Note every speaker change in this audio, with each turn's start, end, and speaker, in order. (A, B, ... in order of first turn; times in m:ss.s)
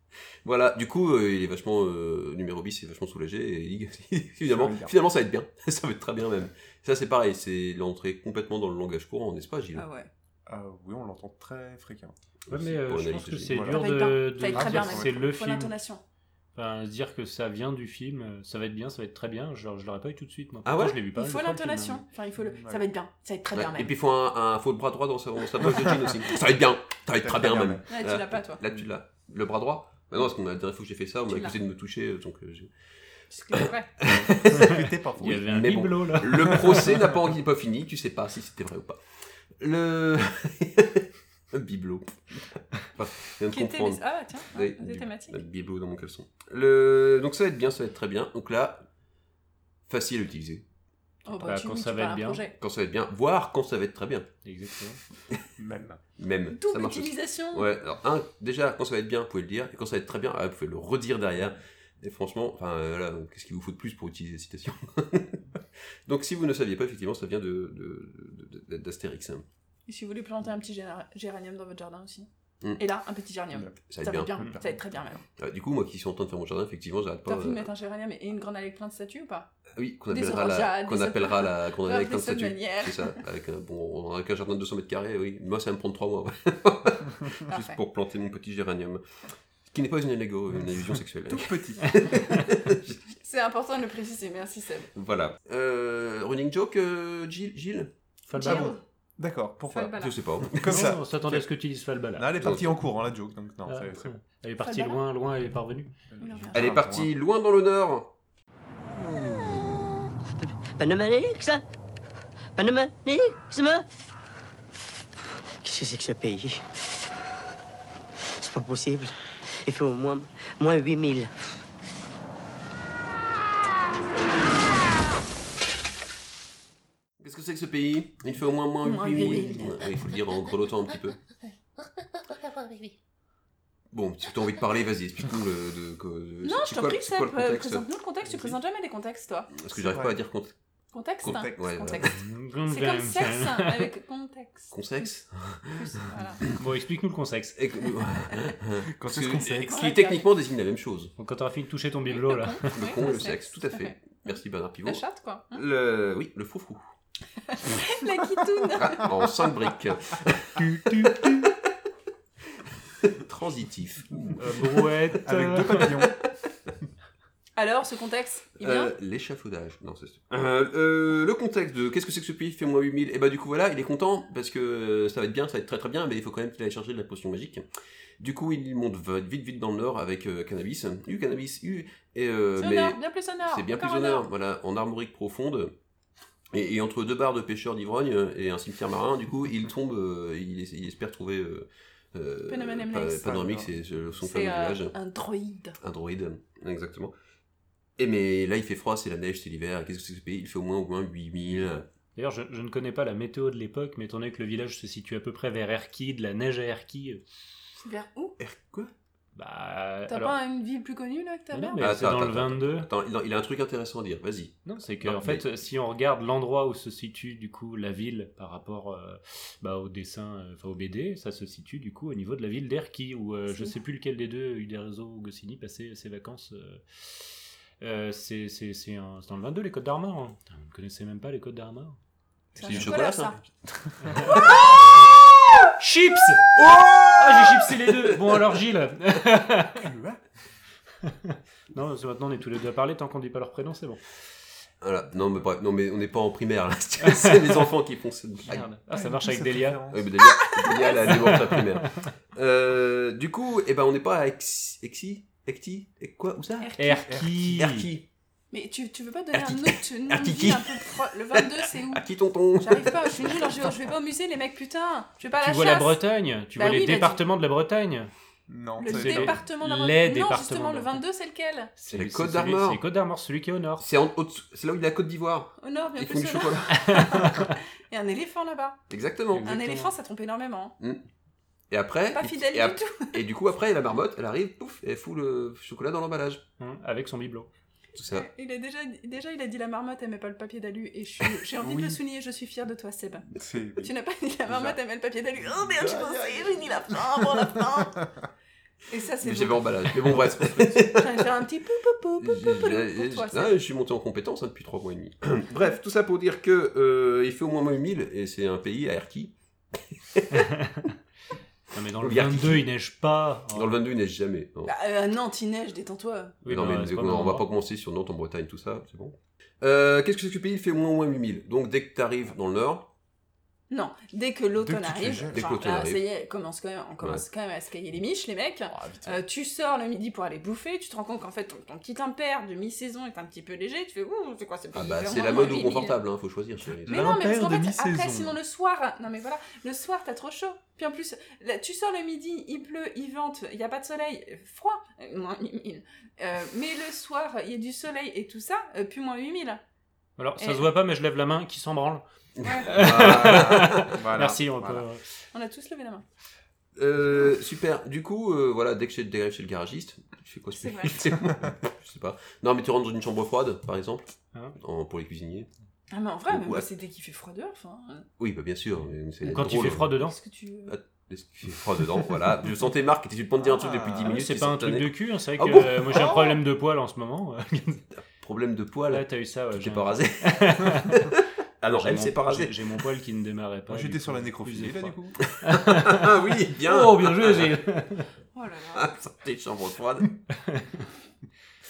0:00.4-0:09.9 A
0:04.5-0:05.0 B
0:09.8-0:10.1 C
0:10.5-0:12.1 B
0:12.5-0:13.7 A
0:12.5-0:15.8 D
0:13.5-0:15.2 B
0:13.7-0:16.0 C
0:16.6-0:22.0 D
0:20.6-0:21.0 A
0:21.2-0:23.9 C
0:22.4-0:22.8 B
0:23.5-0:32.7 A
0:27.2-0:27.8 B
0:27.9-0:28.6 C
0:31.3-0:31.6 C
0:33.3-0:33.9 C
0:33.5-0:39.0 A
0:34.0-0:35.5 B
0:34.6-0:37.2 D
0:39.6-0:48.8 A
0:43.5-0:45.4 C
0:49.9-0:50.6 A
0:51.3-0:52.5 C
0:51.4-0:52.4 D
0:52.6-0:54.3 A
0:54.4-0:55.0 D
0:55.6-0:56.0 B
0:56.2-1:05.4 A
0:56.5-0:57.7 C
1:06.1-1:09.4 A
1:09.9-1:15.2 C
1:13.5-1:13.8 B
1:13.9-1:14.4 A
1:14.4-1:14.8 B
1:15.4-1:17.7 A
1:17.3-1:19.5 C
1:19.8-1:29.0 A
1:20.1-1:23.2 C
1:27.5-1:27.8 C
1:29.7-1:33.0 A
1:31.3-1:32.0 B
1:33.2-1:34.9 C
1:35.0-1:37.9 A
1:38.3-1:38.7 D
1:38.3-1:38.8 C
1:38.4-1:41.5 B
1:39.7-1:40.2 C
1:40.0-1:41.0 A
1:40.6-1:42.3 D
1:42.1-1:44.1 B
1:42.4-1:42.8 A
1:43.7-1:45.9 D
1:44.6-1:45.0 C
1:46.1-1:47.1 B
1:46.2-1:46.7 C
1:46.5-1:48.1 A
1:49.0-1:49.8 E
1:50.4-1:51.6 E
1:52.6-1:53.8 E
1:55.6-1:56.7 E
1:58.3-2:01.3 E
2:07.2-2:11.2 A
2:08.8-2:09.7 C
2:13.9-2:18.6 A
2:16.4-2:19.5 C
2:19.5-2:20.6 A
2:19.7-2:20.2 B
2:20.9-2:25.2 C
2:21.2-2:22.2 A
2:22.1-2:23.9 D
2:24.7-2:25.8 A
2:25.7-2:26.4 C
2:26.5-2:27.6 D
2:27.6-2:31.1 A
2:28.8-2:29.9 B
2:29.4-2:30.2 C
2:31.2-2:32.7 D
2:32.1-2:34.1 C
2:32.7-2:36.8 A
2:34.8-2:35.6 C
2:37.4-2:39.1 C
2:38.8-2:41.6 A
2:43.0-2:44.9 A
2:44.4-2:45.9 D
2:45.2-2:46.2 B
2:47.6-2:48.9 C
2:48.6-2:57.6 A
2:58.2-3:05.8 A
3:02.6-3:04.3 C
3:06.5-3:14.9 A
3:12.5-3:13.6 C
3:13.2-3:13.9 B
3:14.2-3:15.8 C
3:15.8-3:17.1 A
3:18.0-3:21.8 A
3:22.2-3:27.2 D
3:27.8-3:28.4 C
3:28.4-3:28.9 A
3:29.4-3:30.4 D
3:30.1-3:31.9 C
3:31.5-3:32.9 D
3:31.8-3:35.4 A
3:34.6-3:52.0 D
3:43.5-3:43.8 C
3:52.6-3:53.5 A
3:52.6-3:53.4 C
3:54.1-3:54.9 A
3:54.2-3:54.5 D
3:55.8-3:56.6 D
3:56.6-3:58.1 A
3:57.2-3:59.9 D
3:59.8-4:00.2 B
4:01.0-4:04.0 D
4:04.8-4:08.6 A
4:07.0-4:07.7 D
4:08.5-4:09.9 D
4:08.5-4:10.1 B
4:09.9-4:18.1 A
4:10.5-4:11.1 C
4:11.0-4:11.7 D
4:16.6-4:17.1 C
4:16.8-4:17.9 D
4:17.1-4:17.4 B
4:18.5-4:22.0 C
4:19.3-4:23.7 A
4:22.6-4:26.0 C
4:25.4-4:28.1 D
4:26.6-4:27.2 C
4:28.5-4:29.4 B
4:28.8-4:31.7 C
4:28.9-4:31.0 D
4:31.8-4:33.9 D
4:31.9-4:32.8 A
4:33.8-4:37.1 A
4:35.6-4:38.8 C
4:36.9-4:37.5 D
4:38.9-4:39.6 A
4:39.3-4:39.9 D
4:39.4-4:40.8 C
4:41.7-4:46.4 A
4:42.1-4:43.2 C
4:46.6-4:47.5 D
4:48.0-4:48.3 A
4:48.1-4:58.0 C
4:51.6-4:52.0 B
4:53.3-4:53.9 B
4:55.6-4:57.6 B
4:58.9-4:59.9 C
4:59.2-5:01.3 A
5:00.1-5:00.9 B
5:00.9-5:03.6 C
5:02.2-5:10.5 A
5:11.7-5:13.8 D
5:12.0-5:12.7 A
5:13.5-5:14.7 A
5:14.6-5:16.4 C
5:16.4-5:17.5 D
5:16.5-5:22.9 A
5:23.7-5:36.0 C
5:24.6-5:25.5 B
5:25.3-5:26.0 A
5:28.7-5:29.2 B
5:34.7-5:37.3 A
5:36.9-5:38.4 B
5:36.9-5:49.6 C
5:50.2-5:52.0 D
5:50.4-5:50.7 C
5:52.4-5:54.0 A
5:52.4-5:52.7 C
5:52.7-5:55.0 D
5:53.1-5:54.9 B
5:55.3-5:56.0 C
5:56.8-6:05.5 A
6:00.6-6:01.0 C
6:05.9-6:08.1 C
6:06.3-6:06.7 A
6:08.2-6:09.9 A
6:09.2-6:10.2 D
6:10.0-6:10.8 C
6:10.7-6:16.2 A
6:13.4-6:14.2 B
6:14.0-6:17.9 D
6:18.2-6:22.5 A
6:18.9-6:21.0 D
6:21.7-6:28.1 D
6:23.7-6:25.2 B
6:25.4-6:27.6 A
6:28.4-6:28.9 C
6:28.8-6:30.2 A